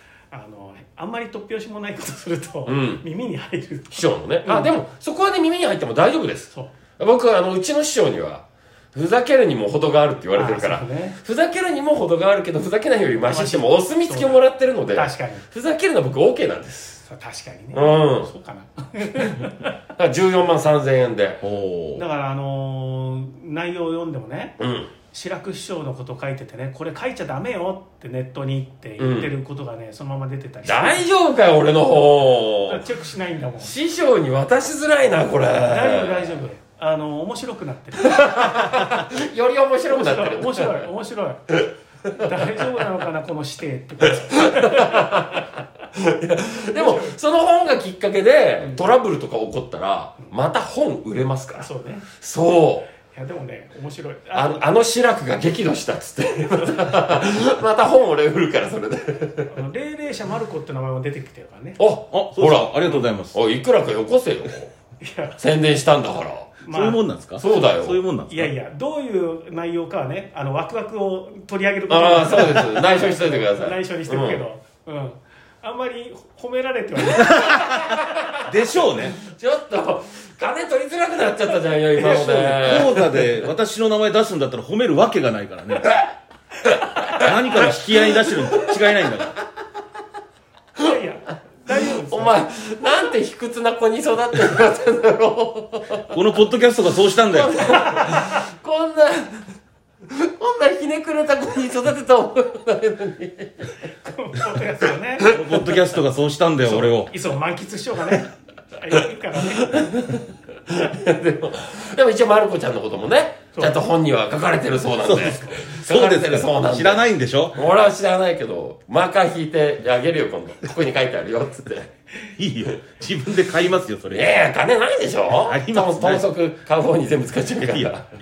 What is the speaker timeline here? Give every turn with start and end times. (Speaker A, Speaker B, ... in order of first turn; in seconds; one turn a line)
Speaker A: 0.3-4.7
Speaker B: 2.6-3.0
Speaker B: 3.9-17.0
Speaker A: 10.3-11.2
Speaker A: 13.3-14.4
Speaker A: 14.9-15.4
Speaker A: 17.1-19.7
Speaker B: 17.7-18.3
Speaker B: 20.0-21.4
Speaker C: 21.4-22.0
Speaker A: 21.9-24.6
Speaker B: 24.6-24.9
Speaker A: 25.1-31.0
Speaker B: 29.0-29.3
Speaker B: 30.6-32.8
Speaker A: 32.6-33.7
Speaker B: 33.6-36.4
Speaker A: 35.6-39.0
Speaker B: 38.0-40.8
Speaker A: 39.9-41.6
Speaker B: 41.5-42.7
Speaker A: 42.1-45.2
Speaker B: 44.2-52.9
Speaker A: 46.7-47.1
Speaker A: 51.6-52.0
Speaker A: 53.1-54.6
Speaker B: 54.3-59.5
Speaker A: 59.5-61.8
Speaker B: 61.8-64.7
Speaker C: 62.1-63.4
Speaker A: 65.0-65.4
Speaker B: 65.4-66.6
Speaker A: 66.6-67.0
Speaker C: 66.7-68.5
Speaker B: 67.4-68.0
Speaker A: 68.3-77.9
Speaker B: 71.9-74.4
Speaker C: 77.3-77.8
Speaker B: 77.6-83.2
Speaker C: 78.4-79.2
Speaker C: 82.0-86.0
Speaker A: 82.0-82.5
Speaker B: 86.7-88.8
Speaker C: 87.2-89.3
Speaker A: 90.8-92.4
Speaker B: 91.7-96.1
Speaker C: 96.1-97.7
Speaker B: 97.3-99.5
Speaker A: 97.6-98.4
Speaker B: 100.1-103.7
Speaker A: 104.0-105.3
Speaker B: 105.2-105.6
Speaker C: 105.2-107.1
Speaker A: 106.6-109.9
Speaker B: 109.5-121.9
Speaker A: 113.5-113.8
Speaker C: 115.0-117.6
Speaker A: 115.3-115.6
Speaker C: 122.4-124.3
Speaker B: 124.1-128.1
Speaker C: 125.3-126.2